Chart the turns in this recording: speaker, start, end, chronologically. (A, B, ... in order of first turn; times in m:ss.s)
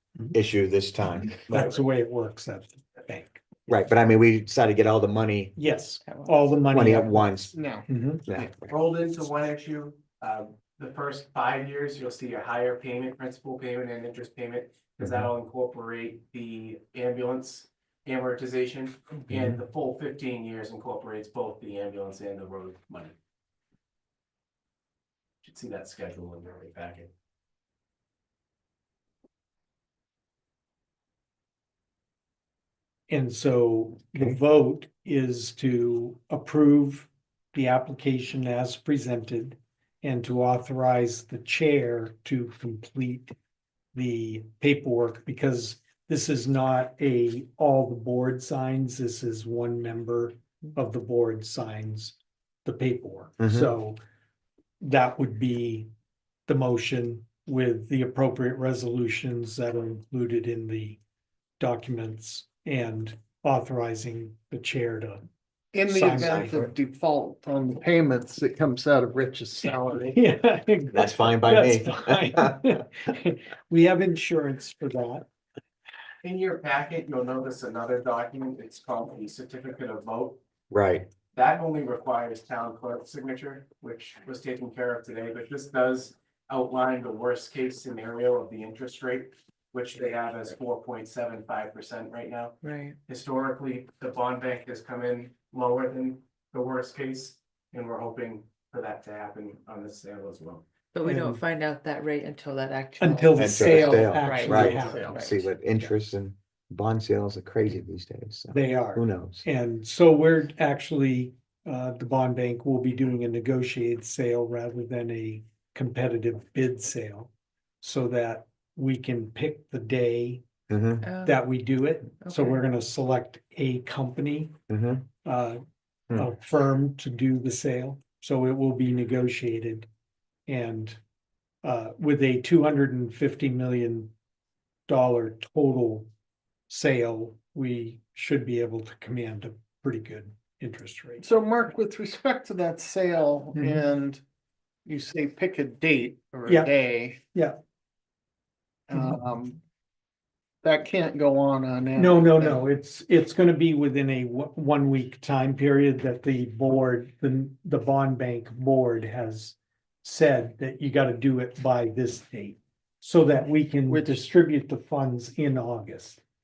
0:00.3-0:01.8 A
0:01.3-0:03.4 B
0:03.7-0:05.5 A
0:05.6-0:07.3 B
0:06.0-0:06.6 C
0:06.7-0:07.6 A
0:07.5-0:07.9 D
0:07.9-0:08.2 B
0:08.2-0:08.7 A
0:08.3-0:23.1 E
0:19.3-0:19.6 A
0:25.4-0:27.1 E
0:33.1-0:43.3 B
0:43.9-0:54.0 B
0:53.4-0:53.7 A
0:54.8-0:55.9 B
0:56.5-1:01.0 B
1:01.6-1:05.2 B
1:05.7-1:10.2 D
1:05.8-1:06.6 B
1:06.1-1:06.7 A
1:10.1-1:15.2 B
1:10.9-1:12.7 A
1:16.2-1:20.4 E
1:20.7-1:21.1 A
1:21.3-1:40.6 E
1:32.6-1:33.0 C
1:40.9-1:45.4 C
1:41.0-1:41.4 B
1:43.0-1:45.9 B
1:43.4-1:49.4 A
1:44.8-1:45.0 E
1:48.5-1:57.3 B
1:57.8-2:00.4 B
2:00.7-2:01.0 A
2:01.0-2:01.4 C
2:01.2-2:04.5 B
2:02.2-2:02.6 C
2:04.7-2:05.1 A
2:05.2-2:05.6 B
2:06.1-2:09.9 B
2:10.5-2:11.0 B
2:11.6-2:14.1 B
2:14.9-2:16.1 B
2:16.7-2:21.2 B
2:21.2-2:24.2 D
2:23.6-2:23.8 B
2:24.8-2:27.2 D
2:26.4-2:26.7 B
2:28.9-2:29.6 D
2:28.9-2:29.2 B
2:30.6-2:32.6 D
2:32.0-2:46.2 B
2:43.9-2:44.2 D